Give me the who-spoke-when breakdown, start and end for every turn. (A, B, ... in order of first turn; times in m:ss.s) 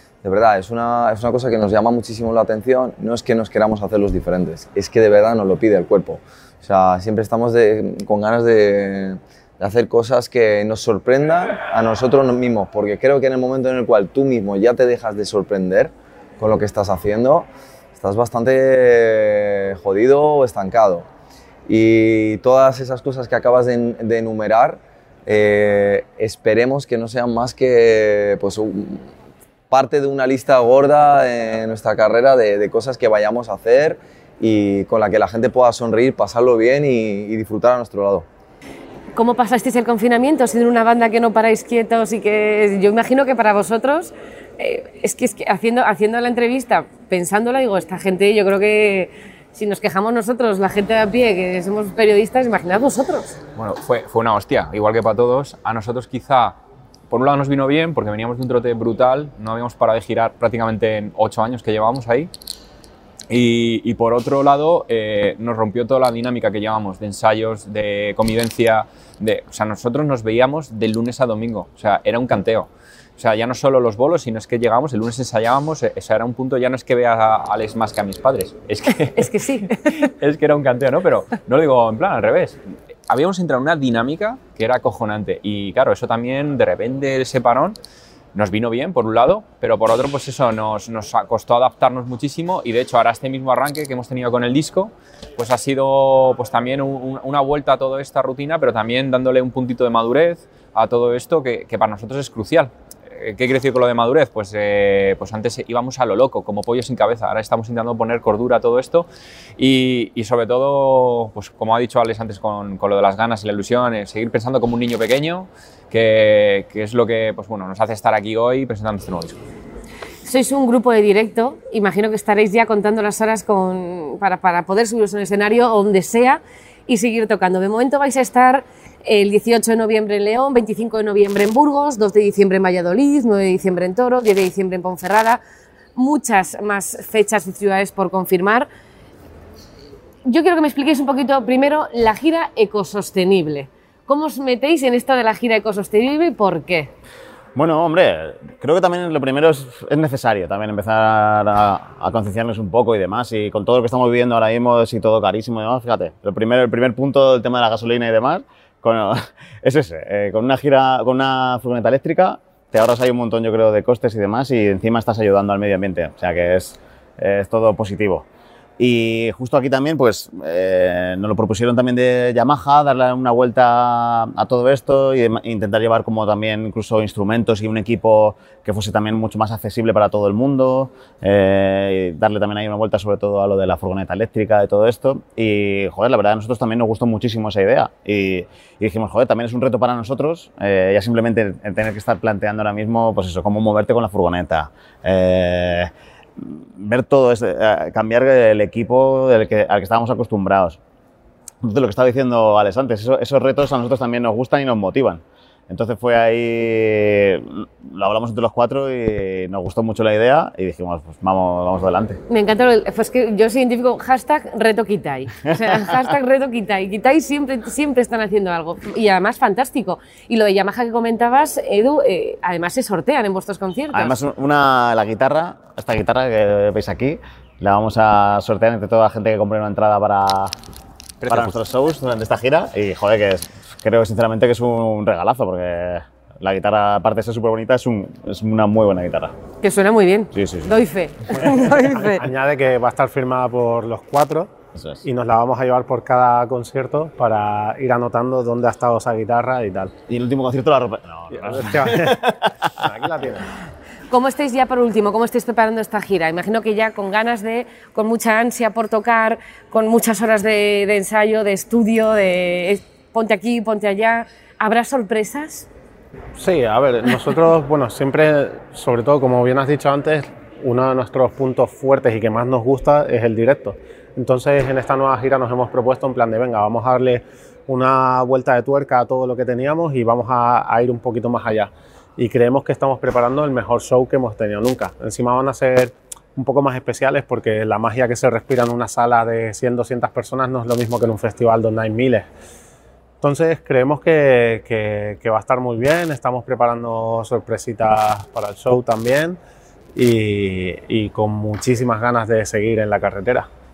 0:00.2-0:21.0 A
0:21.7-0:29.1 A
0:29.7-0:38.3 A
0:39.2-0:53.4 B
0:53.6-0:56.6 C
0:57.1-1:02.3 C
1:03.3-1:27.8 C
1:19.2-1:19.8 B
1:28.3-1:59.4 C
2:00.2-2:15.4 B
2:16.0-2:18.7 B
2:20.3-2:26.9 B
2:27.6-2:48.2 D
2:48.8-3:20.8 D
3:21.6-3:32.2 D
3:32.3-3:44.2 B
3:43.9-3:50.5 D
3:51.2-3:51.6 C
3:51.3-3:59.3 D
3:59.6-4:02.2 B
4:00.3-4:00.7 D
4:01.3-4:04.5 E
4:04.8-4:05.0 D
4:05.0-4:09.9 E
4:10.1-4:12.5 D
4:11.3-4:12.2 E
4:12.8-4:13.5 E
4:14.1-4:25.7 B
4:26.4-4:52.3 E
4:53.2-4:59.4 E
5:00.0-5:03.5 E